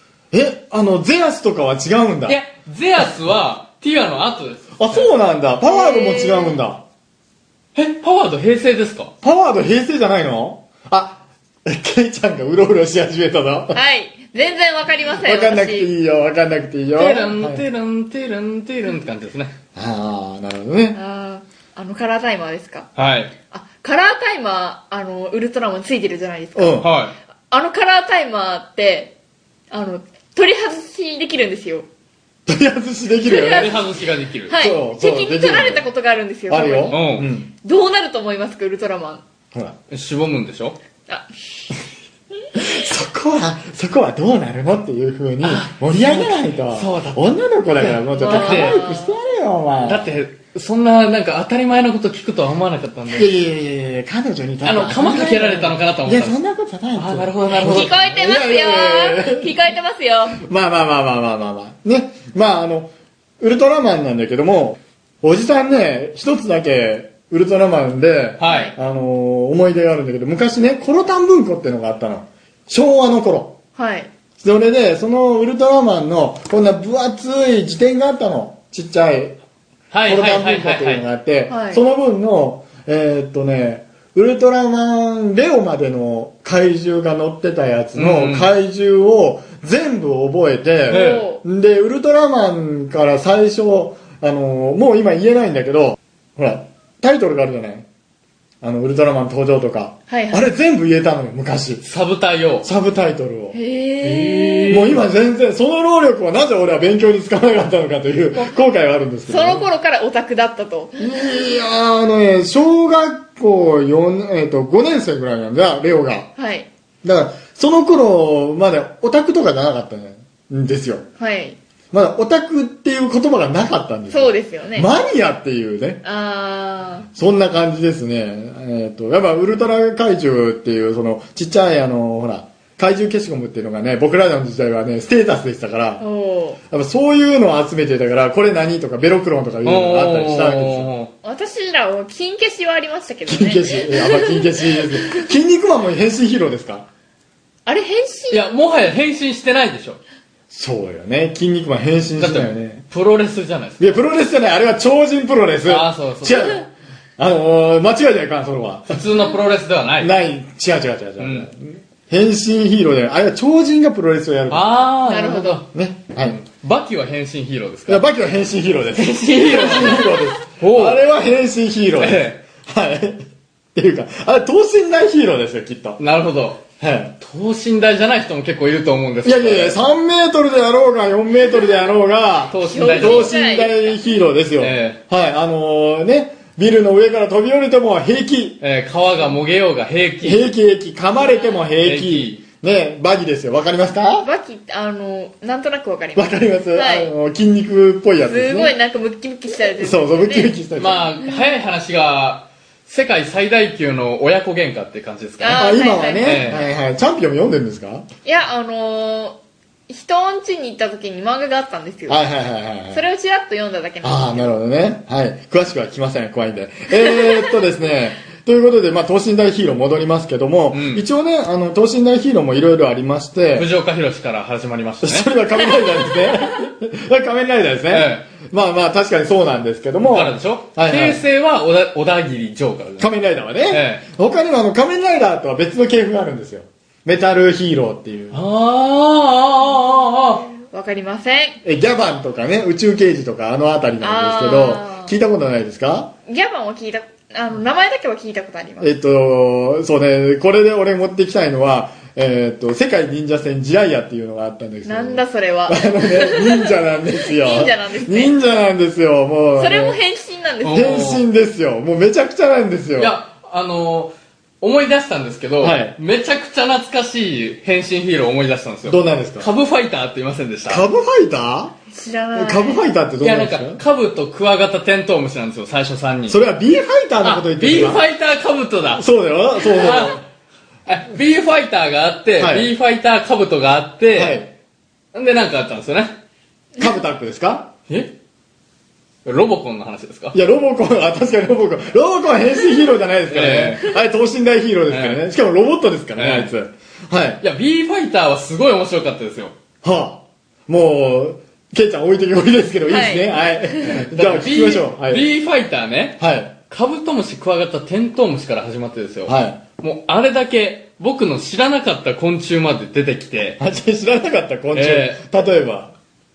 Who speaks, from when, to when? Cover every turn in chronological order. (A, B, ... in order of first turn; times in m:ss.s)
0:00.3-0:02.4 A
0:02.3-0:05.1 B
0:04.8-0:06.8 A
0:05.6-0:06.6 C
0:07.7-0:09.1 B
0:09.2-0:13.8 A
0:13.7-0:15.9 C
0:15.2-0:17.6 A
0:16.9-0:19.5 B
0:19.7-0:21.0 A
0:20.9-0:22.9 C
0:23.0-0:23.3 B
0:23.5-0:26.8 C
0:26.6-0:26.9 A
0:26.8-0:27.1 B
0:27.5-0:29.1 C
0:29.7-0:31.9 C
0:32.4-0:33.8 A
0:33.2-0:33.7 C
0:33.4-0:34.5 B
0:34.5-0:37.0 C
0:34.5-0:35.8 A
0:36.5-0:37.5 A
0:36.9-0:37.3 B
0:37.6-0:39.2 C
0:39.9-0:40.8 B
0:42.5-0:50.1 A
0:45.4-0:48.8 B
0:48.2-0:49.2 C
0:49.8-0:53.3 B
0:53.1-0:59.6 A
0:54.6-0:56.4 B
0:56.9-0:57.9 B
0:57.6-1:00.4 C
1:00.4-1:13.6 A
1:08.4-1:08.7 B
1:08.4-1:08.7 C
1:13.8-1:14.1 C
1:14.4-1:19.4 A
1:19.9-1:21.0 B
1:20.0-1:37.8 A
1:21.5-1:21.8 C
1:27.9-1:28.5 B
1:30.9-1:31.4 C
1:30.9-1:31.2 B
1:38.6-1:41.8 A
1:40.1-1:40.4 C
1:41.8-1:42.7 B
1:42.6-1:43.6 A
1:43.5-1:44.8 C
1:44.0-1:45.0 B
1:44.7-1:49.6 A
1:49.3-1:51.0 C
1:51.0-1:56.3 A
1:56.4-1:56.7 C
1:57.0-2:01.0 A
2:01.2-2:01.6 C
2:01.9-2:06.0 A
2:04.1-2:04.9 C
2:06.0-2:07.1 C
2:07.1-2:16.0 A
2:16.0-2:16.6 C
2:16.7-2:20.9 A
2:19.6-2:21.1 B
2:21.2-2:25.3 C
2:23.3-2:26.8 A
2:27.6-2:28.4 C
2:28.3-2:30.0 B
2:30.5-2:32.8 A
2:32.2-2:34.0 B
2:33.8-2:36.7 A
2:35.6-2:36.6 B
2:37.2-2:39.0 A
2:38.9-2:40.1 B
2:40.0-2:44.6 A
2:41.2-2:41.5 B
2:44.5-2:45.6 B
2:45.0-2:45.6 C
2:45.7-2:46.4 A
2:46.2-2:48.1 B
2:47.9-2:53.2 A
2:48.9-2:51.0 B
2:52.0-2:52.4 B
2:53.7-2:56.0 A
2:56.0-2:56.6 B
2:56.8-2:57.2 A
2:57.2-2:59.8 B
2:59.2-3:08.6 A
3:02.5-3:03.4 B
3:02.6-3:04.0 C
3:04.6-3:05.0 B
3:08.6-3:10.4 B
3:10.2-3:14.3 A
3:11.1-3:11.7 C
3:11.8-3:12.4 B
3:14.2-3:17.1 C
3:16.2-3:18.7 A
3:18.2-3:20.5 C
3:19.8-3:21.1 A
3:20.8-3:26.7 B
3:25.4-3:26.5 C
3:25.5-3:28.0 A
3:28.2-3:32.2 C
3:32.1-3:33.0 A
3:32.9-3:34.5 C
3:34.0-3:43.7 A
3:36.9-3:37.5 C
3:40.7-3:41.0 B
3:43.5-3:45.3 B
3:45.0-3:51.2 A
3:47.9-3:48.3 B
3:50.1-3:53.1 B
3:53.0-3:58.4 A
3:53.7-3:54.0 B
3:58.3-4:00.5 B
4:00.6-4:01.6 C
4:01.6-4:06.1 A
4:04.0-4:05.1 C
4:06.3-4:08.9 C
4:08.8-4:20.0 A
4:14.8-4:18.3 C
4:19.6-4:21.0 C
4:20.6-4:21.2 B
4:20.6-4:23.1 A
4:23.0-4:30.8 B
4:25.6-4:26.0 A
4:28.8-4:29.5 A
4:30.6-4:31.7 A
4:31.9-4:32.9 C
4:32.3-4:33.8 A
4:33.2-4:36.4 B
4:36.3-4:38.0 A
4:37.2-4:39.0 B
4:38.9-4:40.2 A
4:39.6-4:40.2 B
4:40.9-4:44.4 B
4:42.4-4:42.7 A
4:44.1-4:44.5 A
4:45.1-4:46.2 B
4:46.8-4:47.7 A
4:47.9-4:48.1 B
4:49.2-4:50.4 B
4:50.3-4:57.4 A
4:53.3-4:54.0 B
4:54.9-4:55.2 B
4:56.2-4:56.5 B
4:57.4-4:59.5 B
4:59.8-5:05.3 A
5:02.9-5:04.0 C
5:03.8-5:13.6 B
5:06.2-5:06.6 A
5:09.2-5:09.6 A
5:13.6-5:15.9 A
5:14.7-5:15.2 B